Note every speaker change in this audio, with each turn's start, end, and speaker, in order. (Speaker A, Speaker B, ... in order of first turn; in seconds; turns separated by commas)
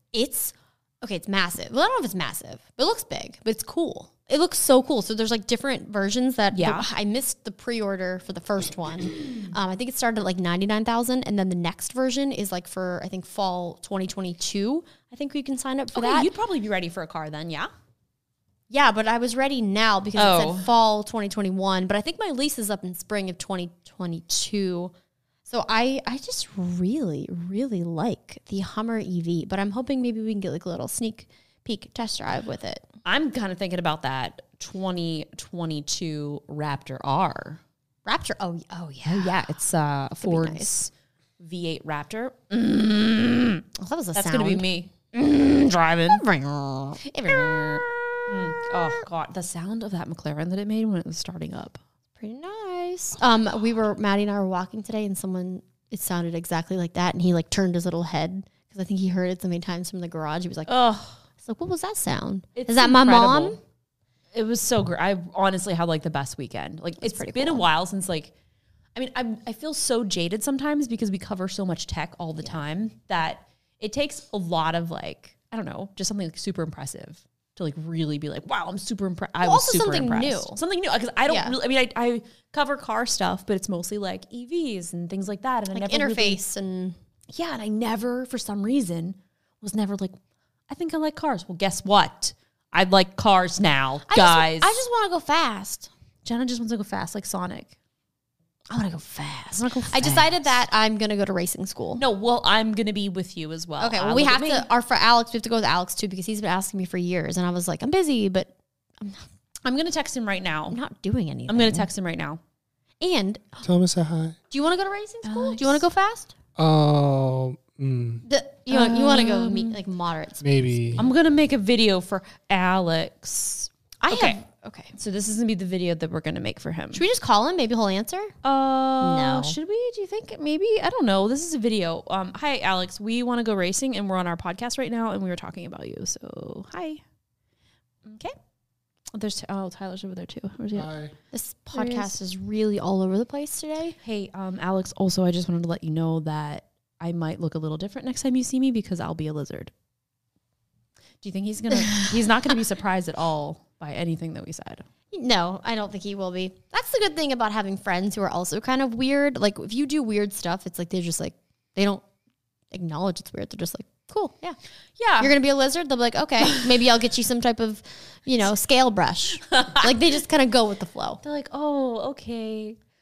Speaker A: 0.1-16.3, Speaker B: 6.5-6.9, Speaker B: 15.9-17.7, Speaker A: 18.7-24.9, Speaker B: 20.1-20.7, Speaker A: 25.5-32.9, Speaker B: 33.0-37.6, Speaker A: 38.0-39.4, Speaker B: 39.0-46.2, Speaker A: 40.2-40.7, Speaker A: 43.8-44.6, Speaker A: 46.1-47.9, Speaker B: 47.3-51.8, Speaker A: 52.2-60.7, Speaker B: 60.7-61.2, Speaker A: 61.4-63.6, Speaker B: 62.5-63.6, Speaker B: 64.3-68.3, Speaker A: 67.0-67.7, Speaker B: 68.9-86.4, Speaker A: 79.4-80.6, Speaker A: 81.3-81.5, Speaker A: 85.7-87.0, Speaker B: 87.3-90.2, Speaker B: 90.7-94.8, Speaker A: 94.1-95.9, Speaker B: 96.2-97.7, Speaker A: 98.7-102.0, Speaker B: 99.5-100.4, Speaker B: 102.0-104.7, Speaker A: 103.8-109.2, Speaker B: 109.6-110.8, Speaker A: 110.7-111.9, Speaker B: 111.5-112.4, Speaker A: 113.0-113.6, Speaker C: 113.6-114.4, Speaker A: 114.5-116.3, Speaker B: 115.2-115.8, Speaker C: 116.5-118.2, Speaker A: 118.2-120.5, Speaker B: 118.7-119.8, Speaker C: 120.4-121.1, Speaker B: 121.0-124.4, Speaker A: 124.0-124.9, Speaker B: 125.0-127.0, Speaker A: 126.9-128.3, Speaker B: 128.4-137.0, Speaker A: 129.0-129.6, Speaker B: 138.0-138.3, Speaker B: 139.1-140.9, Speaker C: 140.7-141.1, Speaker A: 141.3-144.0, Speaker B: 141.7-142.1, Speaker B: 144.0-149.7, Speaker B: 151.2-154.8, Speaker A: 151.8-152.1, Speaker A: 155.1-162.0, Speaker A: 162.7-164.6, Speaker B: 165.0-165.3, Speaker A: 165.2-171.2, Speaker B: 169.5-169.8, Speaker B: 171.2-172.8